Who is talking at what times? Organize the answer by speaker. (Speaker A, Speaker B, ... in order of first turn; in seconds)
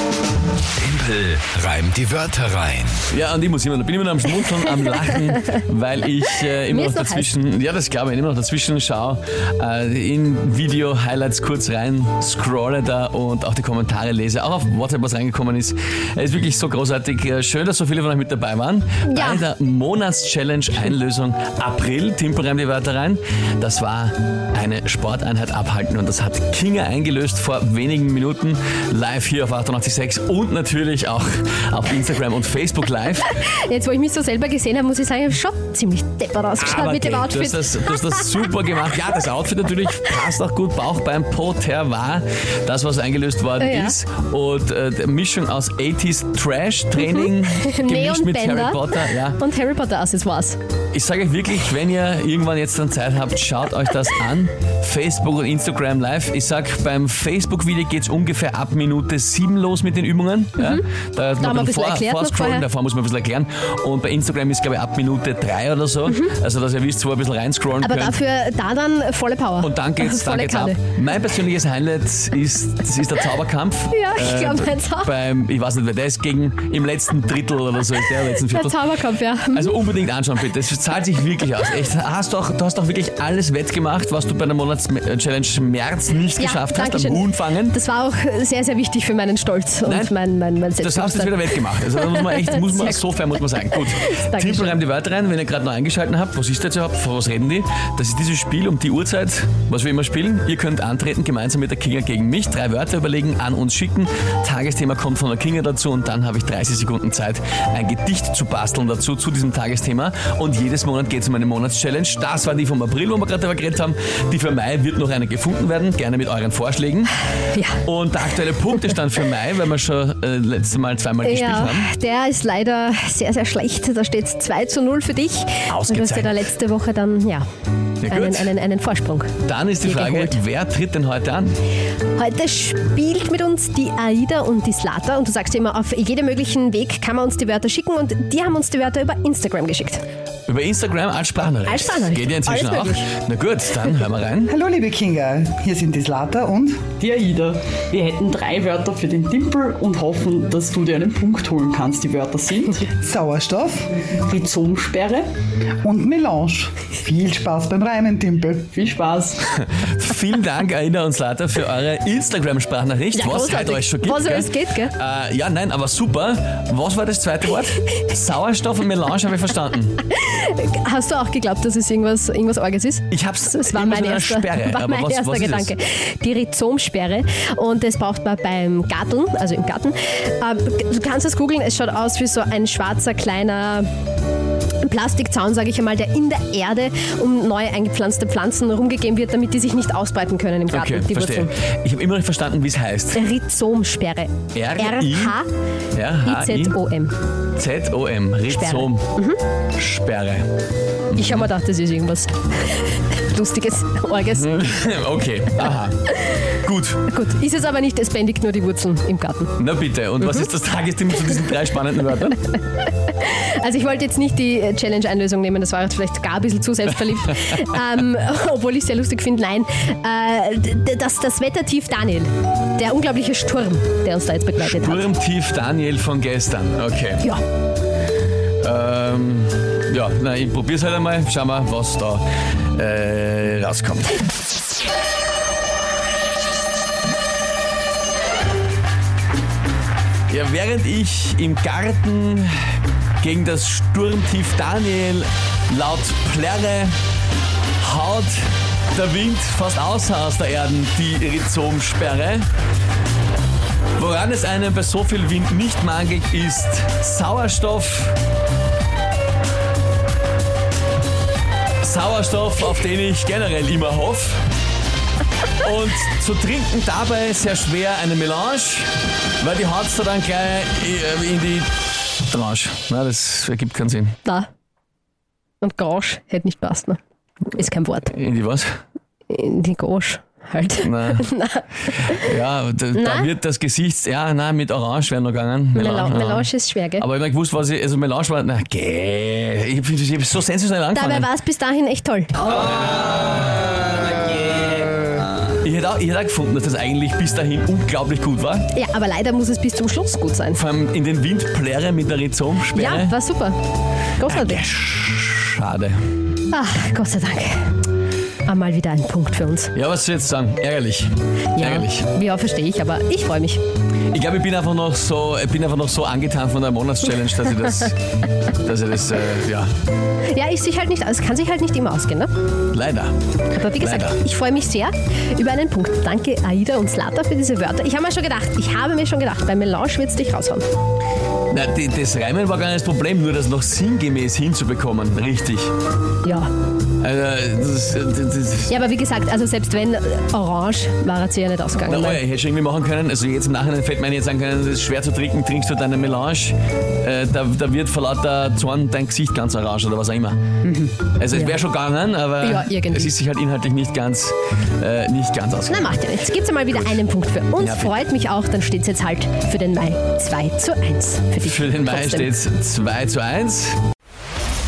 Speaker A: 0.8-3.0
Speaker B: 3.1-33.3, 36.6-49.4, 50.9-68.2, 69.6-78.8, 79.5-87.8, 89.8-90.1, 90.8-117.2, 117.8-121.9, 125.7-126.4, 128.0-128.5, 129.4-131.5, 140.5-144.5, 159.5-170.0, 173.1-175.7, 190.7-193.2, 194.5-195.4, 195.9-196.8, 197.6-199.0, 199.8-200.5, 201.1-201.5, 204.3-207.0, 209.6-212.4, 224.6-227.2, 228.6-234.2, 240.3-242.5, 243.2-246.9, 247.8-252.5, 254.0-258.2, 261.8-264.4, 265.6-271.7, 272.2-274.1, 278.1-278.7, 280.8-281.3, 282.1-291.3, 295.6-298.7, 300.5-303.1, 304.2-305.9, 309.7-312.1, 314.1-317.9, 318.6-319.7, 322.7-323.1, 323.8-324.2, 331.5-335.7, 337.0-338.7, 341.9-350.4, 351.2-356.0, 357.6-357.9, 361.4-363.8
Speaker C: 6.7-7.3, 19.1-19.4, 33.3-38.5, 43.6-44.0, 47.0-50.6, 61.4-62.6, 67.8-70.8, 73.9-75.1, 78.2-79.7, 86.4-93.0, 93.7-94.8, 117.5-117.8, 121.2-127.4, 128.1-130.4, 132.2-140.0, 141.7-143.1, 163.1-164.9, 170.1-183.9, 184.8-191.5, 193.1-195.5, 196.2-197.1, 198.5-199.4, 201.1-204.5, 206.1-206.4, 207.1-209.6, 210.2-210.5, 212.5-225.1, 275.6-277.0, 277.5-278.1, 279.3-282.3, 282.9-283.3, 285.7-287.1, 290.9-292.4, 298.7-300.6, 302.7-303.6, 304.2-304.6, 306.5-307.7, 308.4-309.7, 311.6-313.6, 320.3-322.3, 323.5-330.6, 336.2-336.5, 338.7-342.2, 351.3-351.6, 352.4-353.1, 355.7-362.3
Speaker D: 144.5-146.9, 152.9-153.9, 155.8-158.7, 350.6-350.9
Speaker E: 147.0-152.7, 154.3-155.2, 158.8-159.3